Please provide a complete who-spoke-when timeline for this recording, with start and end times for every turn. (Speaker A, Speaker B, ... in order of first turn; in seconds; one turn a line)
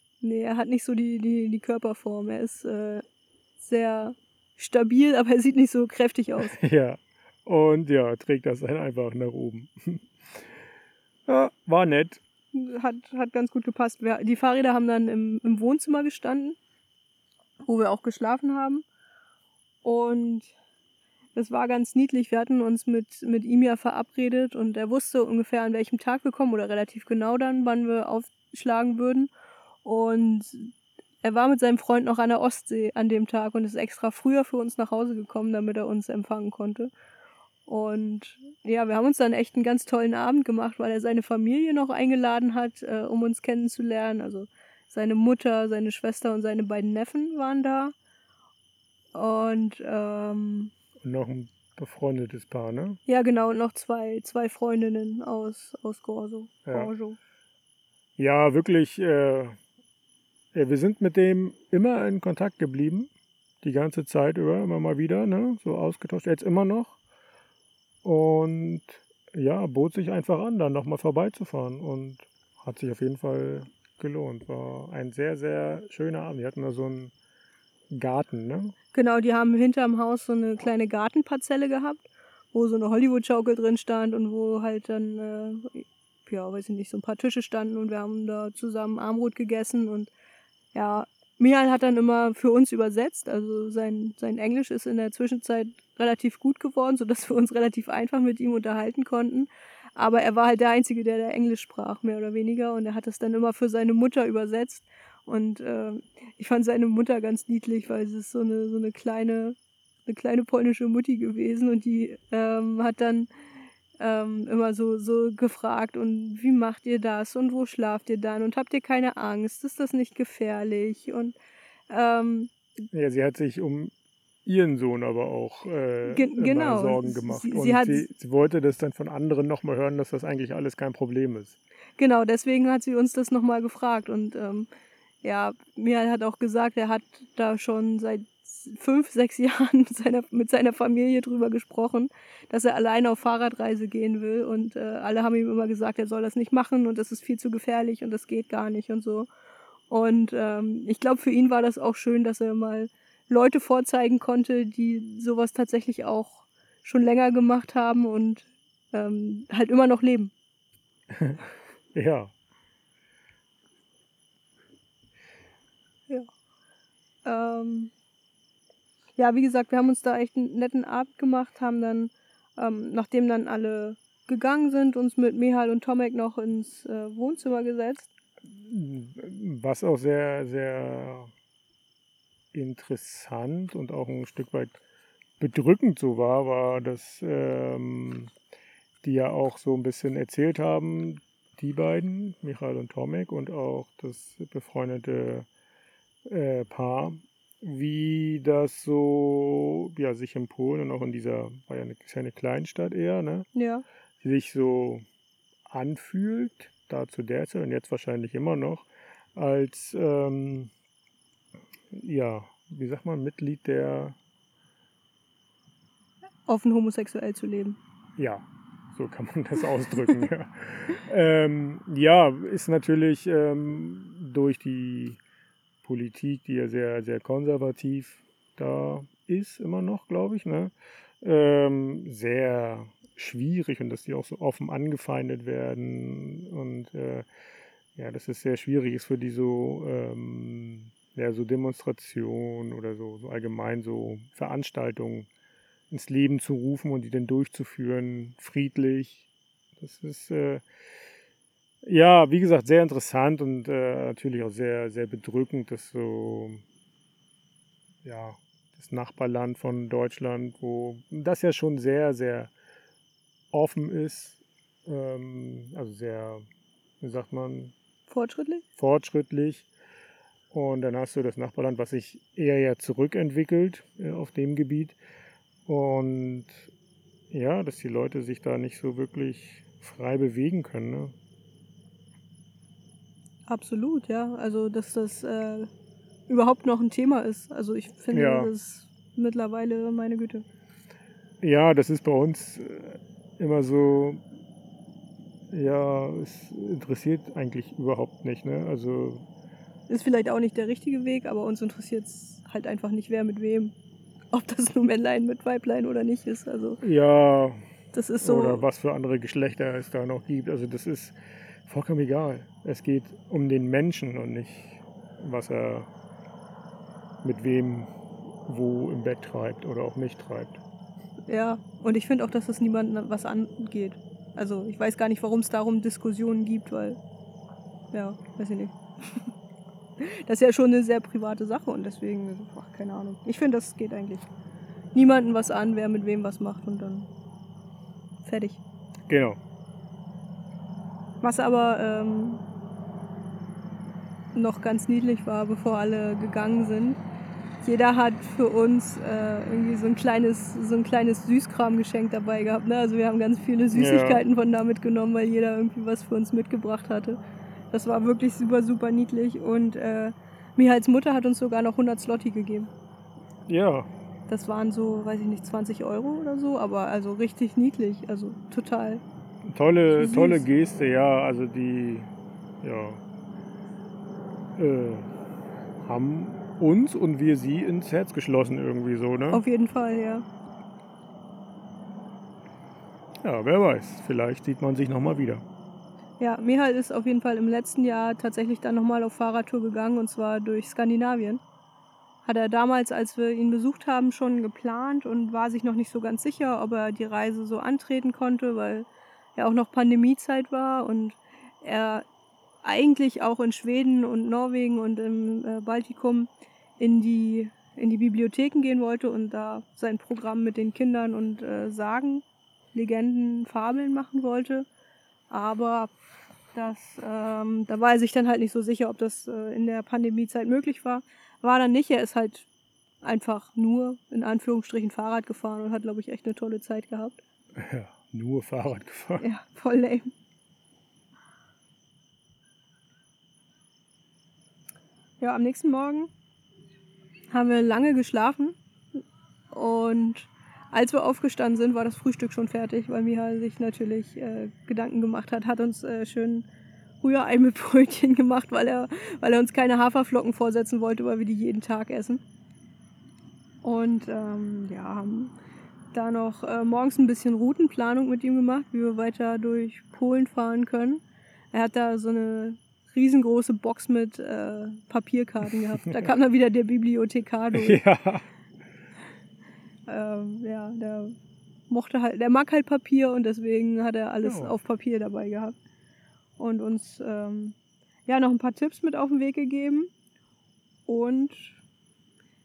Speaker A: 0.2-3.0
Speaker A: 3.6-6.6
Speaker B: 6.5-10.6
Speaker B: 11.3-12.2
Speaker A: 12.5-16.6
Speaker A: 17.6-18.9
Speaker A: 19.8-20.5
Speaker A: 21.4-29.3
Speaker A: 29.8-36.9
Speaker A: 37.7-47.9
Speaker A: 49.1-50.7
Speaker B: 51.0-53.0
Speaker A: 53.1-57.2
Speaker B: 56.7-56.9
Speaker B: 58.2-59.6
Speaker B: 60.5-67.0
Speaker B: 68.0-77.1
Speaker B: 77.9-78.8
Speaker A: 78.9-90.1
Speaker A: 90.7-113.3
Speaker A: 114.0-121.4
Speaker A: 121.9-122.5
Speaker B: 122.9-123.9
Speaker B: 124.5-131.6
Speaker A: 126.1-128.1
Speaker A: 132.0-134.7
Speaker A: 135.2-149.3
Speaker A: 149.9-160.3
Speaker B: 161.1-161.4
Speaker B: 161.9-162.3
Speaker A: 167.2-167.9
Speaker A: 169.2-178.1
Speaker B: 178.5-181.3
Speaker B: 182.5-184.8
Speaker B: 185.4-188.3
Speaker B: 189.0-195.5
Speaker B: 196.3-203.5
Speaker A: 203.6-203.8
Speaker B: 204.2-205.1
Speaker B: 205.7-210.7
Speaker B: 211.9-214.2
Speaker A: 216.5-217.8
Speaker B: 218.2-225.2
Speaker B: 225.8-237.3
Speaker B: 238.0-245.3
Speaker B: 245.9-250.6
Speaker B: 251.8-256.6
Speaker B: 258.0-262.5
Speaker B: 263.5-266.4
Speaker B: 267.0-267.7
Speaker A: 268.1-268.6
Speaker B: 268.8-269.7
Speaker B: 270.5-275.0
Speaker B: 275.7-276.7
Speaker B: 277.3-281.1
Speaker A: 283.5-285.7
Speaker A: 286.3-290.4
Speaker B: 288.1-288.5
Speaker B: 291.4-294.2
Speaker B: 295.5-299.2
Speaker A: 299.9-303.7
Speaker A: 304.3-306.8
Speaker B: 306.8-307.6
Speaker A: 307.9-308.6
Speaker B: 308.2-315.9
Speaker B: 317.2-317.9
Speaker B: 318.5-320.6
Speaker A: 321.3-327.0
Speaker A: 327.9-329.2
Speaker A: 330.0-334.3
Speaker A: 334.9-337.1
Speaker A: 338.2-338.6
Speaker B: 339.1-339.4
Speaker A: 341.2-342.4
Speaker A: 344.4-347.0
Speaker A: 347.6-357.2
Speaker B: 353.7-354.2
Speaker A: 357.7-362.7
Speaker B: 363.5-363.9
Speaker A: 364.3-369.0
Speaker B: 369.5-372.1
Speaker A: 369.9-370.5
Speaker B: 372.6-373.0
Speaker B: 374.6-375.1
Speaker B: 375.8-379.4
Speaker A: 379.3-380.2
Speaker B: 383.2-385.4
Speaker A: 386.2-391.4
Speaker A: 392.2-402.1
Speaker A: 402.6-414.6
Speaker A: 415.3-415.9
Speaker A: 416.5-422.5
Speaker A: 423.0-427.2
Speaker B: 427.6-429.3
Speaker A: 429.2-430.1
Speaker A: 435.2-436.1
Speaker A: 437.3-438.6
Speaker A: 439.5-446.5
Speaker A: 447.0-452.2
Speaker A: 453.6-455.3
Speaker A: 455.9-461.0
Speaker A: 461.5-467.8
Speaker B: 467.5-468.3
Speaker A: 469.9-471.1
Speaker A: 471.7-475.6
Speaker B: 474.2-474.5
Speaker A: 476.4-479.9
Speaker A: 480.9-481.6